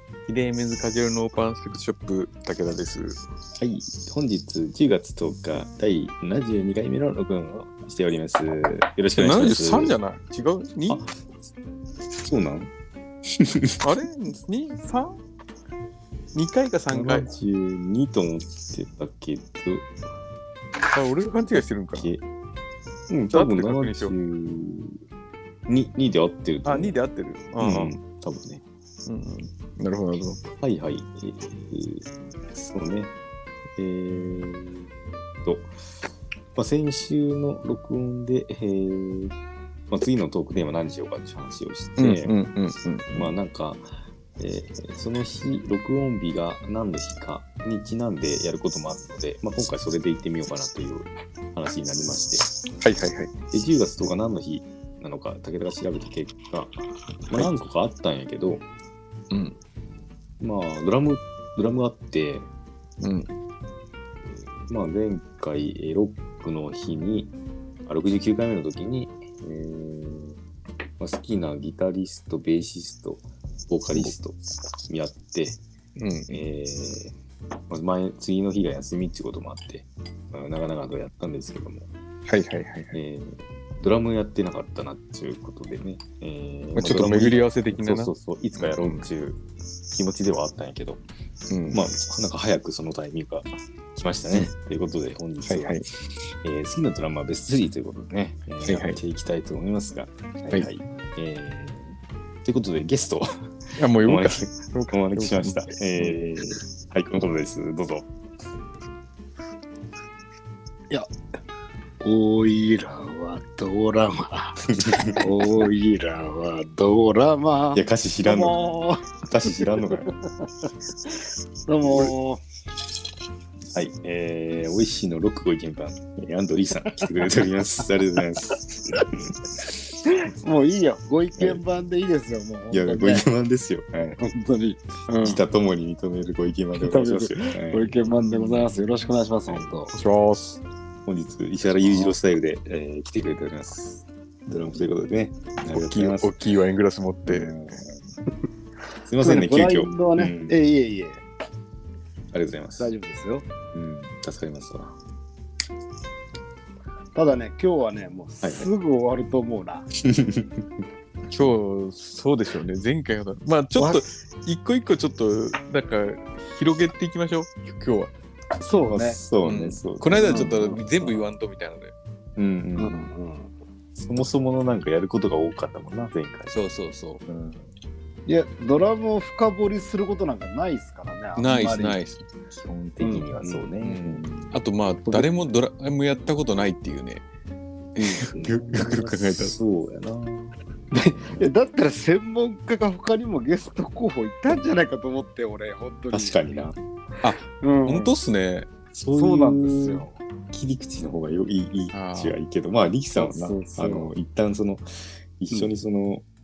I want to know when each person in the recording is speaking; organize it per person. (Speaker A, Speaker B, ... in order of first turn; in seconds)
Speaker A: 0.3-3.2, 9.2-11.0, 13.8-15.2, 16.3-17.2, 20.9-22.1, 23.3-24.1, 26.6-27.9, 29.1-30.4, 42.0-43.3, 52.8-53.3, 59.3-59.6, 63.0-63.3, 76.0-76.3, 82.3-82.9, 86.7-89.0, 91.5-91.8, 95.4-95.8, 98.6-99.0, 103.8-106.2, 139.9-140.6, 145.7-147.6, 161.3-168.1, 169.4-171.9, 176.5-177.2, 181.4-182.2, 183.8-187.2, 187.9-189.5, 197.2-198.7, 201.9-202.3
Speaker B: 3.6-9.9, 10.9-11.1, 12.2-12.7, 13.3-13.8, 16.9-19.9, 21.5-22.2, 23.1-25.0, 25.7-27.0, 27.6-28.6, 30.6-33.1, 33.8-34.9, 35.4-35.7, 36.5-39.3, 39.9-42.3, 43.1-43.9, 44.4-52.5, 53.5-56.7, 57.3-58.6, 60.4-62.5, 64.7-67.3, 67.8-70.4, 71.0-75.6, 76.3-77.1, 77.7-81.9, 82.9-89.4, 89.9-91.0, 91.7-95.8, 96.4-103.3, 104.0-108.1, 114.8-115.3, 117.7-118.6, 119.2-120.1, 123.7-129.3, 132.7-134.2, 135.2-138.2, 141.0-146.3, 147.3-148.1, 149.0-150.5, 152.3-152.9, 153.7-155.0, 158.4-158.7, 159.9-160.7, 168.8-171.2, 172.3-173.1, 173.9-176.6, 177.3-177.7, 182.5-184.5, 188.3-190.5, 191.1-191.5, 196.1-196.8, 198.9-204.8, 205.4-206.2
Speaker C: 112.0-119.1, 121.7-122.4, 130.1-133.2, 134.2-135.4, 136.8-139.9, 149.2-151.2, 152.8-153.4, 157.1-159.8, 163.8-164.0, 168.6-169.2, 170.2-170.7, 172.8-173.5, 178.3-182.0, 183.0-183.7, 185.1-185.3, 190.9-196.4, 197.5-198.1, 199.1-200.1, 203.2-204.1